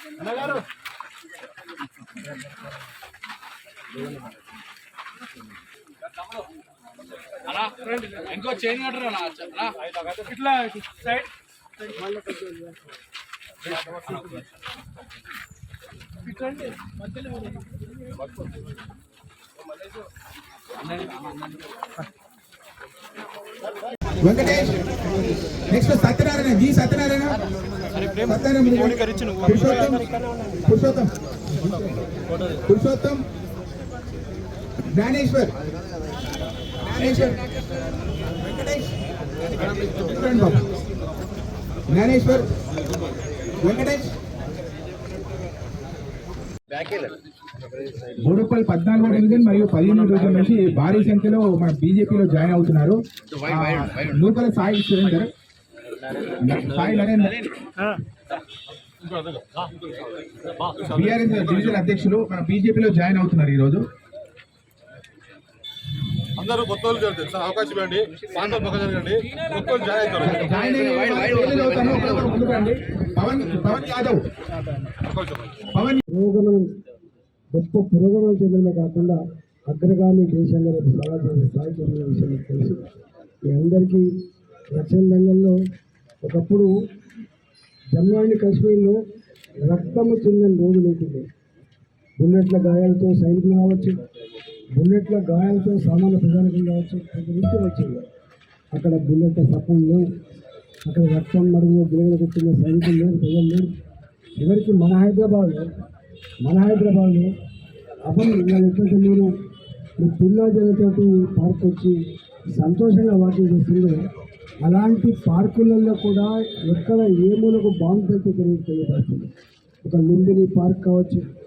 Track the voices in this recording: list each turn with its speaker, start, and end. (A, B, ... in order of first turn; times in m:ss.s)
0:24.2-0:27.4 A
0:28.2-0:30.0 A
0:30.7-0:32.0 A
0:32.7-0:33.2 A
0:34.9-0:35.5 A
0:36.9-0:37.4 A
0:38.4-0:38.9 A
0:40.0-0:40.6 A
0:41.9-0:42.5 A
0:43.6-0:44.1 A
0:48.3-0:55.3 A
0:56.4-0:57.4 A
0:59.1-0:59.4 B
1:00.9-1:03.8 A
1:06.4-1:10.3 B
1:10.2-1:14.2 A
1:15.8-1:16.0 A
1:16.1-1:16.7 C
1:17.6-1:22.9 C
1:23.5-1:24.1 C
1:24.8-1:25.6 C
1:26.2-1:26.7 C
1:27.9-1:29.0 C
1:29.6-1:31.3 C
1:32.2-1:33.9 C
1:34.8-1:38.1 C
1:38.7-1:40.1 C
1:40.9-1:43.7 C
1:44.4-1:45.7 C
1:46.4-1:47.3 C
1:48.1-1:49.3 C
1:50.0-1:52.0 C
1:52.6-1:54.0 C
1:54.6-1:59.3 C
1:59.8-2:01.2 C